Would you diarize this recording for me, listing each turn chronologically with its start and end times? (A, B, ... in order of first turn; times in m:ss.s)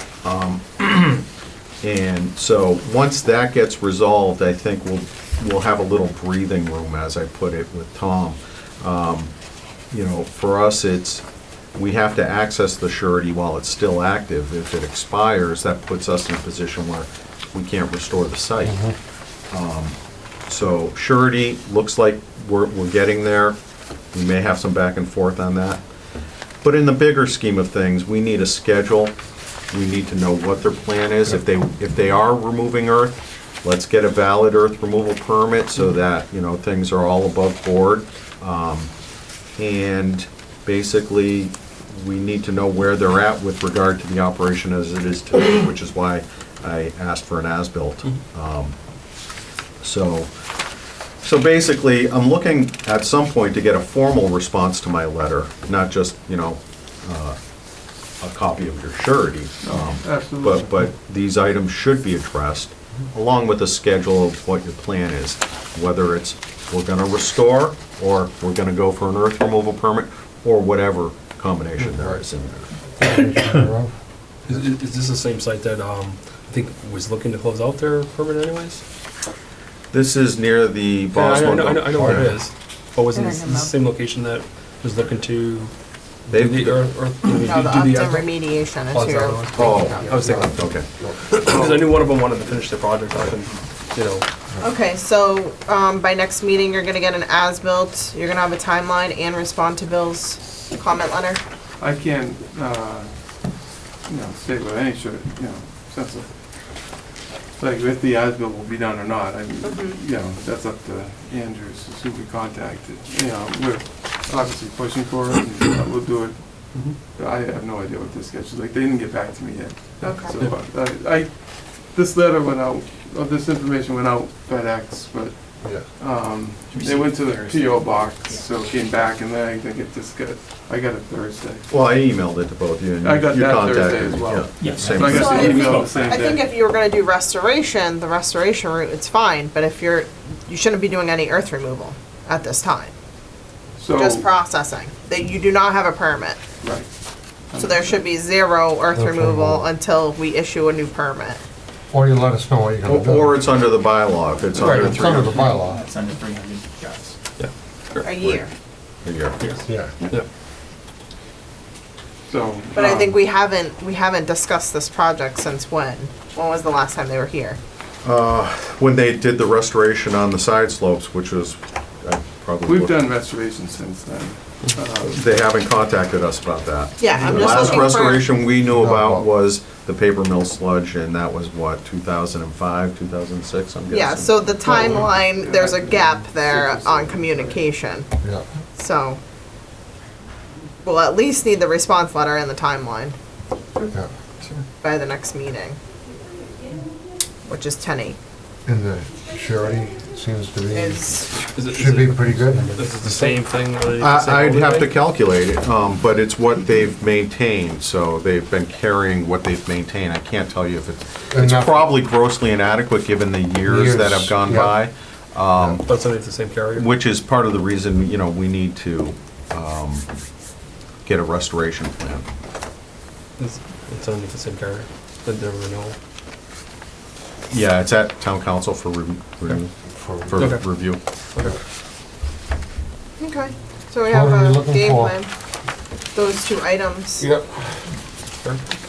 0:00.2-0:01.2 A
0:01.8-0:09.3 A
0:09.9-0:11.2 A
0:11.7-0:18.8 A
0:18.6-0:18.9 B
0:19.5-0:23.6 A
0:24.1-0:25.8 A
0:26.6-0:29.1 A
0:29.7-0:38.9 A
0:39.5-0:48.8 A
0:49.8-0:50.3 A
0:51.2-0:57.4 A
0:58.2-1:12.7 A
0:59.6-1:00.9 C
1:11.9-1:12.2 B
1:13.0-1:13.9 B
1:14.5-1:18.8 D
1:19.9-1:22.3 A
1:21.1-1:25.7 D
1:23.1-1:23.8 E
1:26.3-1:34.2 D
1:26.3-1:26.8 A
1:27.4-1:30.3 E
1:28.9-1:31.2 B
1:29.5-1:30.9 A
1:31.4-1:31.9 C
1:34.6-1:41.4 E
1:41.8-1:43.1 C
1:44.0-1:46.3 C
1:47.6-2:11.6 C
1:49.6-1:50.0 E
2:00.0-2:00.4 E
2:05.6-2:05.8 B
2:06.7-2:08.4 F
2:11.7-2:15.5 A
2:13.0-2:16.4 C
2:14.6-2:16.1 F
2:15.0-2:22.9 E
2:23.8-2:24.3 C
2:23.9-2:26.4 E
2:26.6-2:26.9 C
2:27.5-2:28.0 C
2:27.6-2:31.4 E
2:28.9-2:29.7 B
2:31.9-2:33.4 B
2:32.8-2:35.4 A
2:34.6-2:35.8 B
2:34.6-2:34.9 C
2:35.3-2:37.2 F
2:37.4-2:38.1 D
2:38.0-2:38.5 E
2:38.2-2:38.4 A
2:39.0-2:39.4 A
2:39.6-2:39.9 B
2:42.3-2:43.2 C
2:42.7-2:47.6 E
2:48.0-2:53.0 A
2:52.6-2:55.2 C
2:55.0-3:04.3 A
2:57.0-2:58.3 E
2:57.2-2:57.9 C
2:58.6-2:59.2 B
3:03.9-3:08.1 E
3:04.6-3:07.6 C
3:08.7-3:09.2 E
3:10.8-3:13.2 E
3:14.8-3:15.8 E
3:17.4-3:18.2 E
3:18.6-3:23.3 B
3:20.7-3:21.4 E
3:21.4-3:24.9 D
3:24.0-3:35.8 A
3:31.3-3:32.0 B
3:33.6-3:34.8 B
3:35.8-3:36.9 D
3:36.7-3:40.1 A
3:41.0-3:42.3 A
3:43.4-3:46.0 D
3:47.5-3:51.0 A
3:49.9-3:50.5 B
3:50.4-3:50.8 D
3:53.2-3:55.3 E
3:54.0-3:55.2 B
3:56.1-3:57.3 E
3:57.2-3:57.8 B